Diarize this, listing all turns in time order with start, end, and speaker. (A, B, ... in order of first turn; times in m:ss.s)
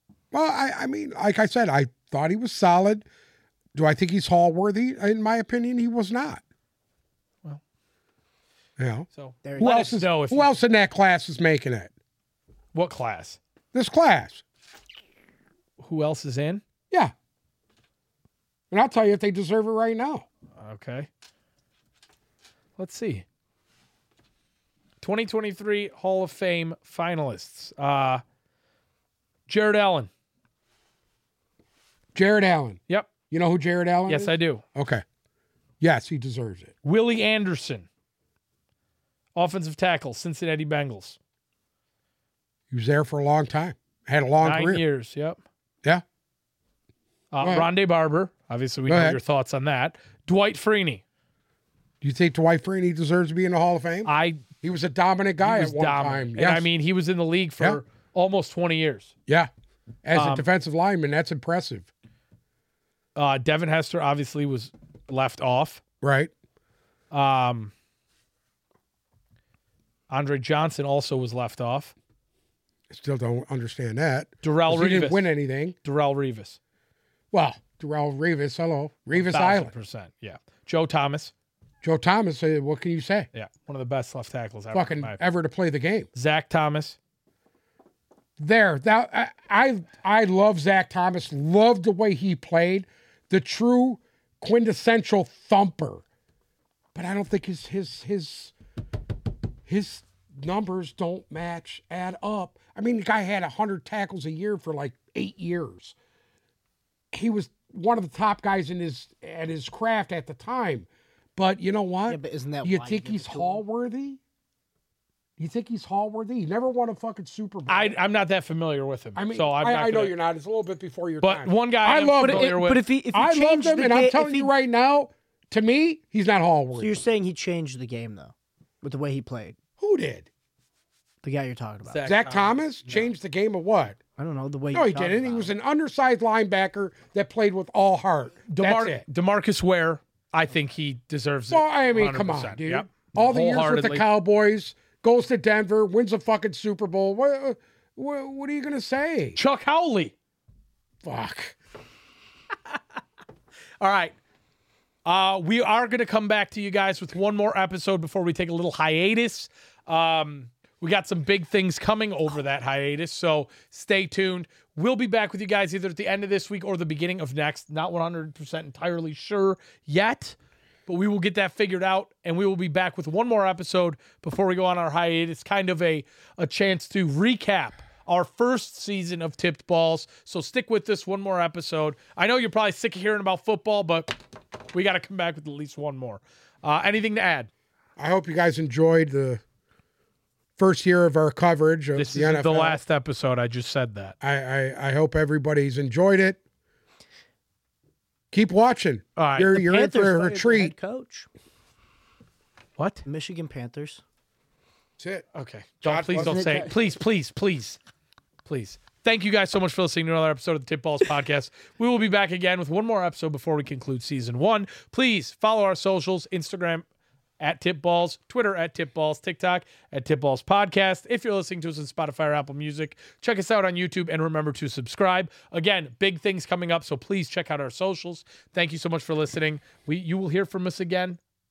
0:00.3-0:03.0 A
0:03.7-0:06.4 A
0:08.8-0:11.9 A
0:09.2-0:10.5 B
0:09.4-0:09.9 C
0:12.7-0:13.4 B
0:13.7-0:14.4 A
0:15.8-0:16.6 B
0:18.7-0:20.2 A
0:20.6-0:21.1 B
0:22.8-0:23.2 B
0:25.0-0:28.2 B
0:29.5-0:30.1 B
0:32.1-0:35.0 A
0:34.1-0:34.6 B
0:35.8-0:36.7 A
0:36.8-0:37.9 B
0:39.3-0:41.2 B
0:42.7-0:44.8 A
0:44.4-0:45.4 B
0:47.3-0:51.0 B
0:47.4-0:47.7 A
0:48.9-0:49.2 A
0:52.0-0:56.7 A
0:54.0-0:54.4 B
0:55.4-0:59.1 B
1:00.0-1:01.9 A
1:00.1-1:00.5 B
1:03.2-1:05.8 B
1:06.0-1:06.3 A
1:07.1-1:07.7 B
1:10.1-1:11.9 B
1:12.9-1:15.8 A
1:14.4-1:15.3 B
1:15.8-1:16.6 B
1:17.3-1:19.7 A
1:19.1-1:21.3 B
1:21.8-1:23.3 A
1:23.3-1:25.2 B
1:24.7-1:26.1 A
1:26.1-1:27.0 B
1:28.4-1:36.0 A
1:36.9-1:38.5 A
1:39.6-1:46.0 A
1:47.1-1:54.2 A
1:52.1-1:53.6 C
1:55.4-1:57.9 A
1:57.7-2:00.1 B
1:59.2-2:02.6 A
2:01.2-2:02.8 B
2:02.2-2:04.5 C
2:03.1-2:07.0 A
2:06.7-2:09.6 C
2:09.8-2:10.3 A
2:11.2-2:13.0 C
2:11.9-2:12.2 B
2:12.0-2:14.0 A
2:14.2-2:15.5 C
2:14.7-2:19.0 A
2:18.5-2:24.0 B
2:21.5-2:29.4 A
2:29.4-2:30.1 B
2:31.0-2:31.6 A
2:33.8-2:34.1 B
2:35.0-2:50.4 B
2:50.9-3:04.2 B
3:04.7-3:07.5 B
3:08.0-3:09.4 A
3:10.6-3:12.8 A
3:12.0-3:14.1 B
3:14.2-3:16.4 A
3:18.3-3:20.7 A
3:19.2-3:19.5 B
3:19.5-3:21.3 C
3:22.8-3:23.0 B
3:23.0-3:24.0 C
3:25.0-3:25.2 A
3:25.3-3:27.8 B
3:25.8-3:26.7 A
3:26.2-3:26.7 C
3:28.4-3:36.8 B
3:37.4-3:51.2 B